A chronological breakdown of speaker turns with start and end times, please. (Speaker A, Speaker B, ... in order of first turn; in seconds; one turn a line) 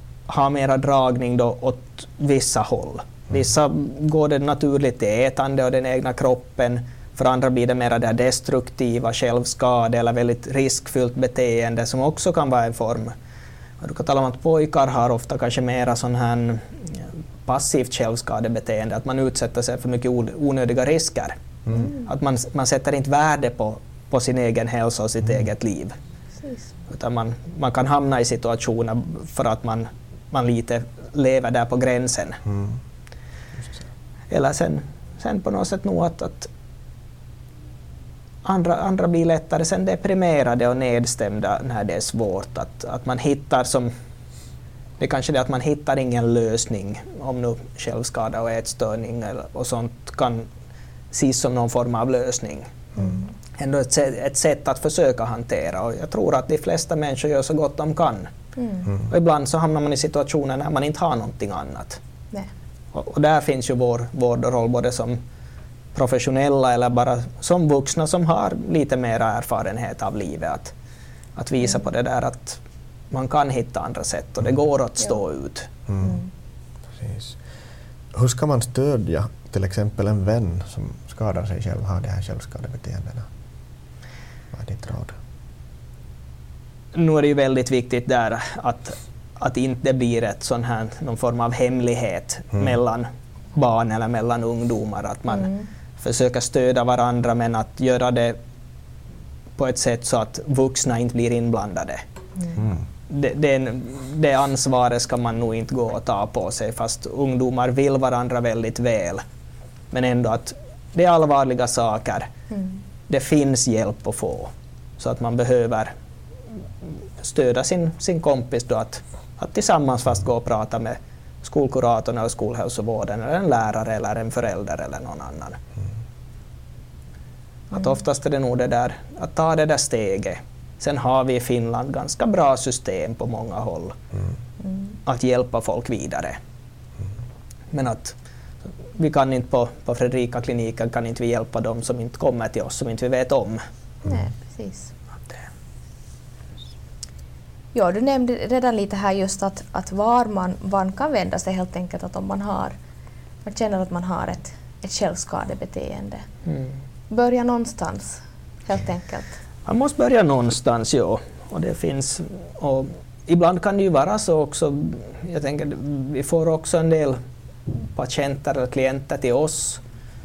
Speaker A: 0.3-13.1
Speaker A: 13.8-21.4
Speaker A: 21.9-26.0
Speaker B: 26.4-26.7
Speaker A: 26.9-32.4
Speaker C: 32.5-32.8
Speaker C: 33.6-33.8
Speaker A: 34.3-36.5
Speaker A: 38.4-43.9
Speaker A: 45.0-50.5
Speaker A: 51.1-52.7
Speaker B: 53.0-53.2
Speaker A: 53.5-58.3
Speaker B: 58.6-58.9
Speaker A: 59.1-62.0
Speaker A: 62.9-65.2
Speaker A: 65.9-70.7
Speaker A: 71.4-72.6
Speaker A: 73.1-75.7
Speaker C: 75.9-76.2
Speaker C: 76.9-77.4
Speaker C: 78.1-83.3
Speaker C: 84.5-85.2
Speaker A: 86.9-98.4
Speaker A: 99.6-102.0
Speaker A: 103.1-109.2
Speaker A: 109.9-112.3
Speaker A: 113.1-115.9
Speaker A: 116.8-125.6
Speaker A: 127.7-134.0
Speaker B: 134.6-134.9
Speaker A: 135.1-136.4
Speaker A: 137.7-138.2
Speaker A: 138.9-143.6
Speaker B: 144.0-144.9
Speaker B: 147.7-152.7
Speaker B: 153.4-156.2
Speaker A: 156.5-156.7
Speaker B: 157.1-159.4
Speaker A: 159.7-167.2
Speaker A: 167.7-169.8